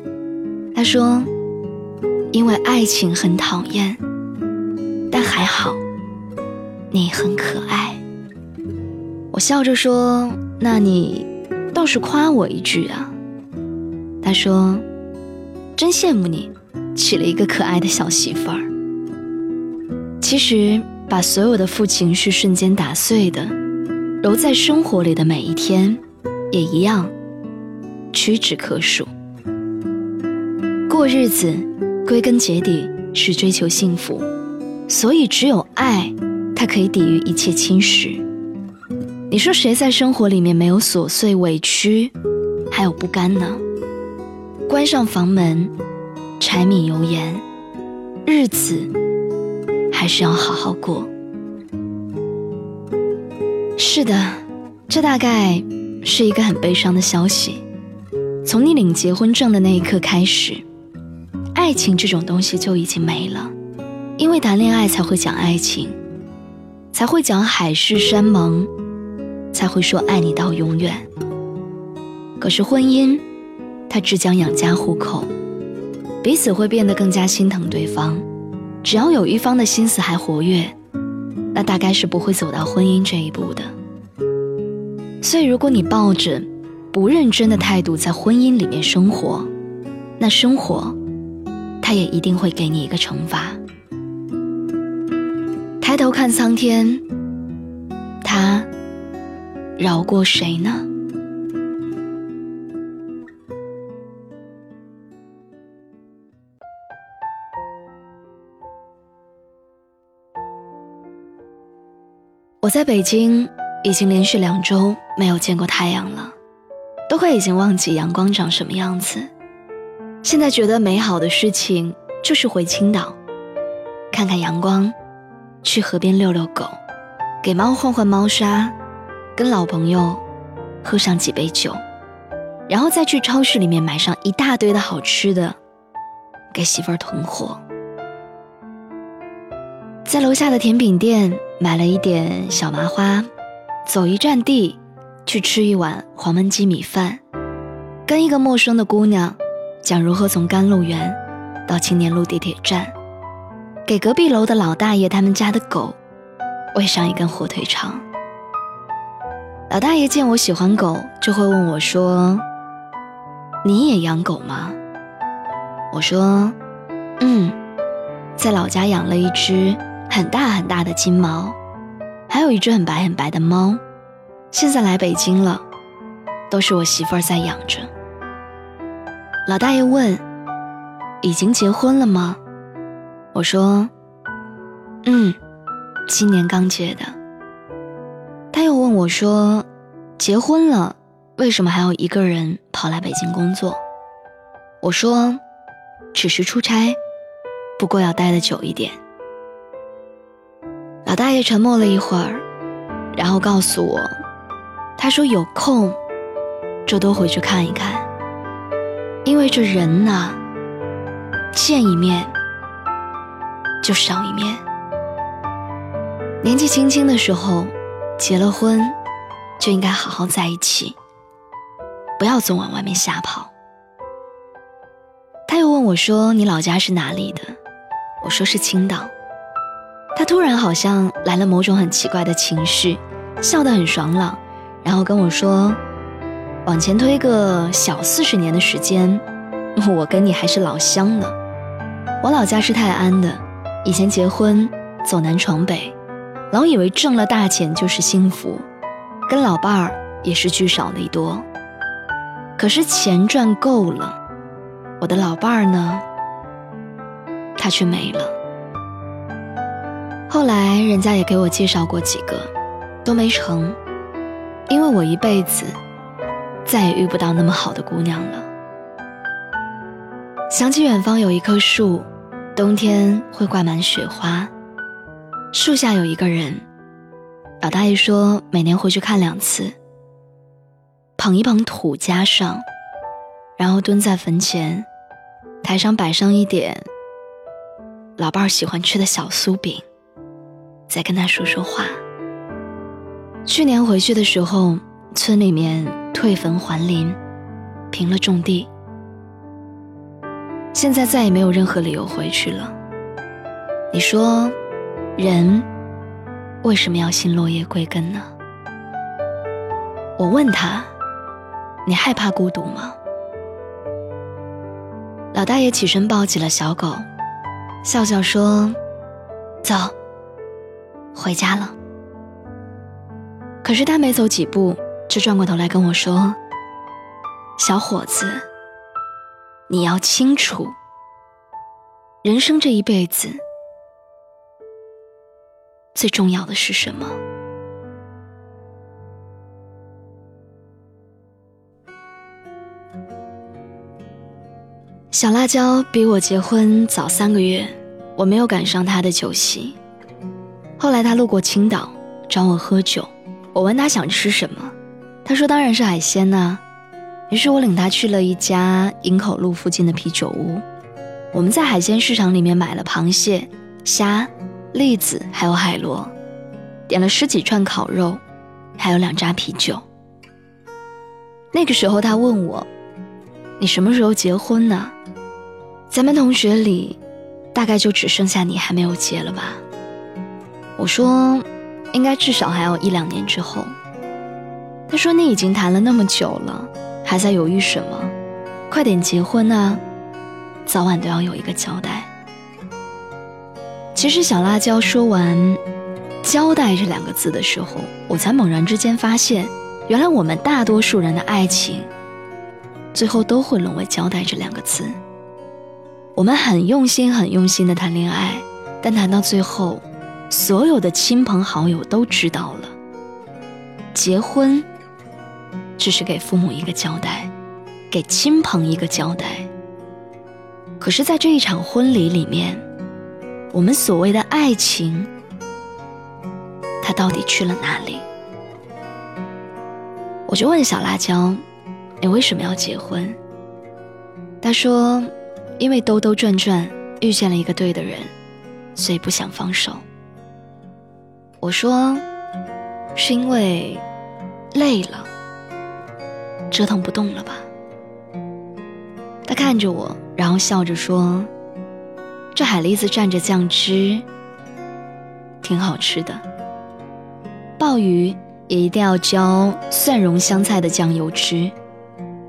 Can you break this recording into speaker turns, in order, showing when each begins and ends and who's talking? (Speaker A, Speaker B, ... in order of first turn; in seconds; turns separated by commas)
Speaker A: 0.7-1.3, Speaker A: 2.3-4.0, Speaker A: 5.1-5.8, Speaker A: 6.9-8.0, Speaker A: 9.3-13.2, Speaker A: 14.2-14.8, Speaker A: 15.8-18.7, Speaker A: 20.2-23.6, Speaker A: 24.2-27.1, Speaker A: 28.1-29.1, Speaker A: 30.9-34.3, Speaker A: 34.9-38.2, Speaker A: 39.3-42.1, Speaker A: 42.7-43.6, Speaker A: 44.7-45.7, Speaker A: 46.4-47.4, Speaker A: 48.2-48.9, Speaker A: 49.9-51.1, Speaker A: 53.8-57.6, Speaker A: 58.4-60.6, Speaker A: 61.5-63.5, Speaker A: 64.2-66.0, Speaker A: 66.9-68.7, Speaker A: 69.5-71.0, Speaker A: 72.4-73.2, Speaker A: 73.9-75.3, Speaker A: 76.2-78.2, Speaker A: 78.8-80.7, Speaker A: 81.5-83.7, Speaker A: 85.2-89.5, Speaker A: 90.2-91.0, Speaker A: 91.8-93.6, Speaker A: 95.8-97.0, Speaker A: 98.2-98.7, Speaker A: 99.8-100.9, Speaker A: 112.6-116.3, Speaker A: 117.1-119.3, Speaker A: 120.2-123.2, Speaker A: 124.1-124.9, Speaker A: 125.6-126.8, Speaker A: 127.4-128.7, Speaker A: 129.3-130.2, Speaker A: 130.8-131.8, Speaker A: 132.7-135.6, Speaker A: 136.5-137.6, Speaker A: 140.0-143.3, Speaker A: 143.8-147.2, Speaker A: 148.1-152.9, Speaker A: 153.8-156.0, Speaker A: 156.7-158.0, Speaker A: 159.7-162.4, Speaker A: 163.6-164.8, Speaker A: 165.9-166.6, Speaker A: 167.2-167.6, Speaker A: 168.4-171.6, Speaker A: 172.3-173.8, Speaker A: 174.5-175.6, Speaker A: 176.5-177.9, Speaker A: 179.4-180.2, Speaker A: 181.2-182.4, Speaker A: 183.3-183.9, Speaker A: 185.0-185.4, Speaker A: 186.1-187.2, Speaker A: 188.5-189.7, Speaker A: 190.2-193.8, Speaker A: 194.8-195.4, Speaker A: 196.1-197.0, Speaker A: 197.8-199.0, Speaker A: 201.0-202.4, Speaker A: 203.1-204.1, Speaker A: 205.0-206.0, Speaker A: 206.8-208.1, Speaker A: 209.2-210.4, Speaker A: 211.5-212.3, Speaker A: 213.8-214.6, Speaker A: 216.4-218.9, Speaker A: 219.6-220.9, Speaker A: 222.2-223.5, Speaker A: 225.5-227.5, Speaker A: 228.2-229.1, Speaker A: 230.1-235.8, Speaker A: 236.6-239.2, Speaker A: 239.8-241.3, Speaker A: 242.2-245.9, Speaker A: 246.5-248.7, Speaker A: 249.2-251.4, Speaker A: 252.6-254.2, Speaker A: 255.0-256.1, Speaker A: 257.6-258.3, Speaker A: 260.3-262.5, Speaker A: 263.0-263.8, Speaker A: 264.7-265.8, Speaker A: 266.6-268.5, Speaker A: 270.5-274.5, Speaker A: 275.5-276.6, Speaker A: 277.6-279.7, Speaker A: 281.2-282.6, Speaker A: 283.6-284.9, Speaker A: 285.6-286.8, Speaker A: 288.2-289.8, Speaker A: 290.9-292.0, Speaker A: 293.4-297.2, Speaker A: 297.9-298.7, Speaker A: 300.7-302.8, Speaker A: 303.9-304.5, Speaker A: 305.1-305.7, Speaker A: 306.6-308.3, Speaker A: 310.2-310.9, Speaker A: 311.8-313.0, Speaker A: 315.3-317.1, Speaker A: 317.8-318.8, Speaker A: 319.6-319.9, Speaker A: 321.1-321.8, Speaker A: 323.6-326.4, Speaker A: 327.6-328.4, Speaker A: 329.7-330.8, Speaker A: 332.2-333.4, Speaker A: 335.9-337.2, Speaker A: 345.1-349.8, Speaker A: 350.8-356.6, Speaker A: 357.3-360.6, Speaker A: 361.3-366.1, Speaker A: 366.9-368.2, Speaker A: 368.8-369.8, Speaker A: 371.5-372.7, Speaker A: 373.6-374.9, Speaker A: 375.9-377.0, Speaker A: 377.5-379.6, Speaker A: 380.8-383.7, Speaker A: 384.9-388.1, Speaker A: 388.7-389.8, Speaker A: 390.6-392.1, Speaker A: 393.9-395.6, Speaker A: 396.2-401.9, Speaker A: 402.9-405.0, Speaker A: 406.1-412.7, Speaker A: 413.9-414.7, Speaker A: 415.8-417.3, Speaker A: 417.9-419.5, Speaker A: 420.8-422.6, Speaker A: 423.5-425.1, Speaker A: 426.8-428.1, Speaker A: 430.3-431.4, Speaker A: 432.0-433.2, Speaker A: 434.4-438.1, Speaker A: 438.7-439.8, Speaker A: 441.4-442.0, Speaker A: 442.9-443.8, Speaker A: 444.5-445.1, Speaker A: 446.5-447.5, Speaker A: 449.2-451.3, Speaker A: 452.3-454.1, Speaker A: 455.4-456.2, Speaker A: 457.6-461.5